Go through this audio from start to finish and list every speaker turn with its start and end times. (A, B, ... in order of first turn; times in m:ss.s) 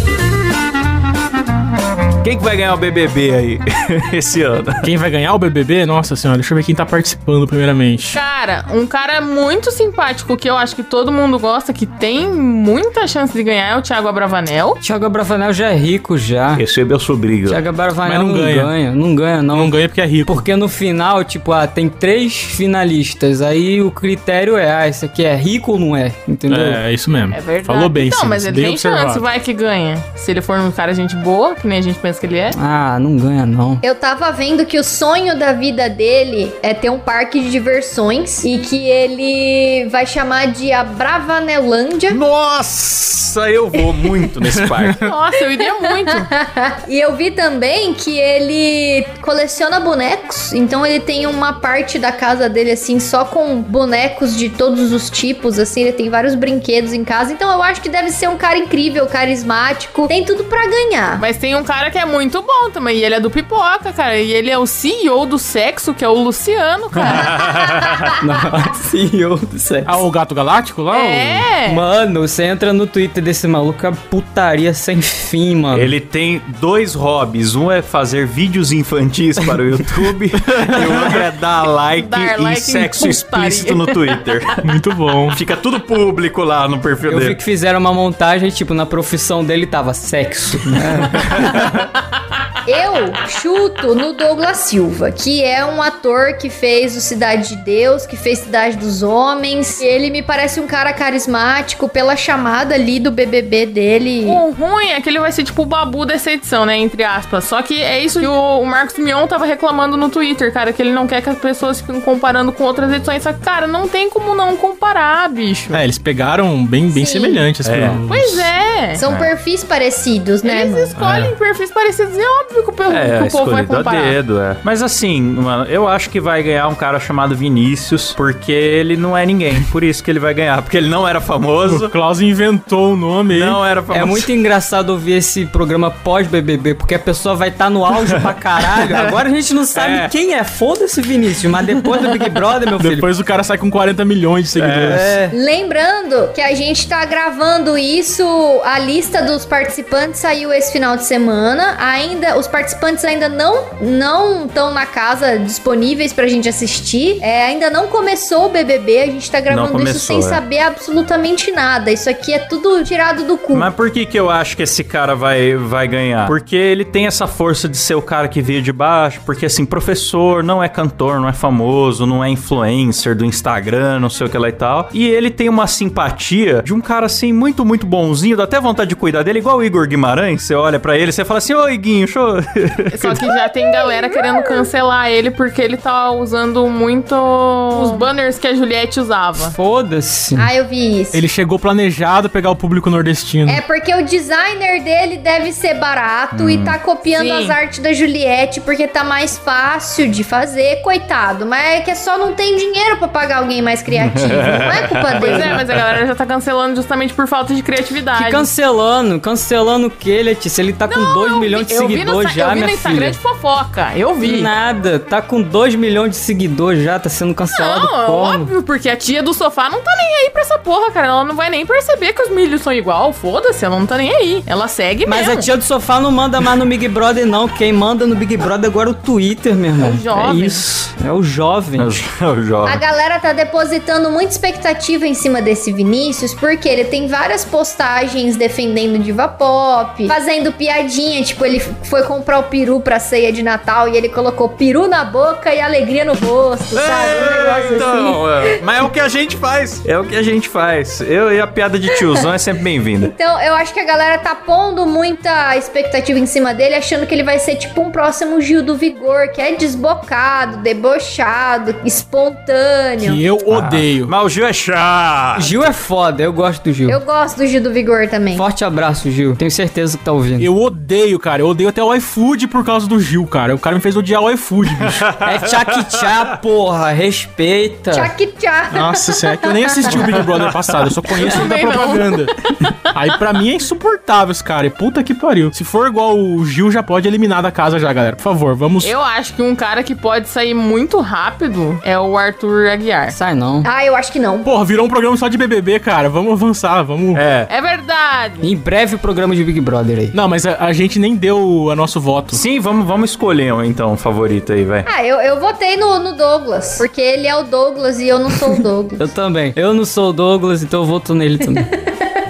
0:02.2-0:04.8 A
0:04.8-0:08.2 B
0:08.1-0:14.8 C
0:14.8-0:16.6 D
0:16.6-0:17.6 A
0:17.5-0:26.8 D
0:18.0-0:18.7 B
0:19.5-0:20.4 B
0:26.5-0:29.2 B
0:27.3-0:32.6 C
0:32.5-0:33.8 D
0:33.8-0:42.2 E
0:42.1-0:45.1 A
0:44.4-0:45.1 B
0:45.0-0:46.3 C
0:45.8-1:01.2 E
1:01.2-1:07.4 C
1:06.9-1:08.2 A
1:08.2-1:10.0 D
1:09.8-1:11.5 B
1:10.9-1:11.8 C
1:11.6-1:15.9 D
1:15.7-1:24.7 A
1:20.5-1:21.2 B
1:21.9-1:24.2 C
1:24.6-1:25.4 B
1:25.3-1:27.4 A
1:27.0-1:31.4 D
1:30.7-1:31.9 A
1:32.6-1:44.4 E
1:44.2-1:55.8 C
1:55.7-1:58.5 B
1:56.9-1:57.4 E
1:57.6-1:58.0 A
1:58.1-1:59.0 C
1:59.0-2:00.9 E
1:59.0-1:59.3 A
2:00.4-2:04.2 C
2:01.0-2:01.3 B
2:02.9-2:11.9 A
2:11.6-2:13.6 B
2:13.3-2:14.3 A
2:13.9-2:23.0 D
2:18.0-2:19.1 A
2:19.7-2:20.1 A
2:22.8-2:25.2 B
2:24.6-2:25.1 A
2:24.9-2:25.3 D
2:25.3-2:43.7 E
2:39.5-2:40.4 A
2:43.5-3:03.3 A
3:02.9-3:09.5 C
3:07.7-3:08.0 E
3:09.4-3:10.5 D
3:10.4-3:11.2 E
3:11.1-3:13.6 B
3:13.4-3:25.5 E
3:16.3-3:16.8 A
3:17.1-3:17.6 C
3:23.9-3:25.8 A
3:25.2-3:28.5 C
3:28.1-3:33.2 D
3:30.8-3:34.5 C
3:34.2-3:38.5 D
3:37.6-3:45.5 C
3:45.1-3:51.9 D
3:49.8-3:50.6 C
3:51.8-3:52.8 A
3:52.6-4:08.6 E
4:06.7-4:13.1 A
4:13.0-4:23.2 E
4:23.0-4:24.1 B
4:23.5-4:25.7 A
4:25.4-4:27.0 D
4:26.9-4:28.4 E
4:28.3-4:30.5 D
4:30.4-4:35.0 B
4:34.8-4:36.3 A
4:35.2-4:38.1 D
4:37.9-4:39.9 E
4:38.7-4:42.3 B
4:39.9-4:40.9 A
4:41.2-4:43.1 C
4:42.9-4:48.9 B
4:48.8-4:53.2 C
4:53.1-4:53.7 D
4:53.6-4:54.5 E
4:54.4-4:57.2 B
4:57.1-4:57.5 A
4:57.5-4:58.4 C
4:58.4-5:00.1 D
5:00.1-5:02.4 B
5:02.3-5:04.9 A
5:04.8-5:09.0 E
5:09.0-5:11.7 D
5:11.6-5:12.1 E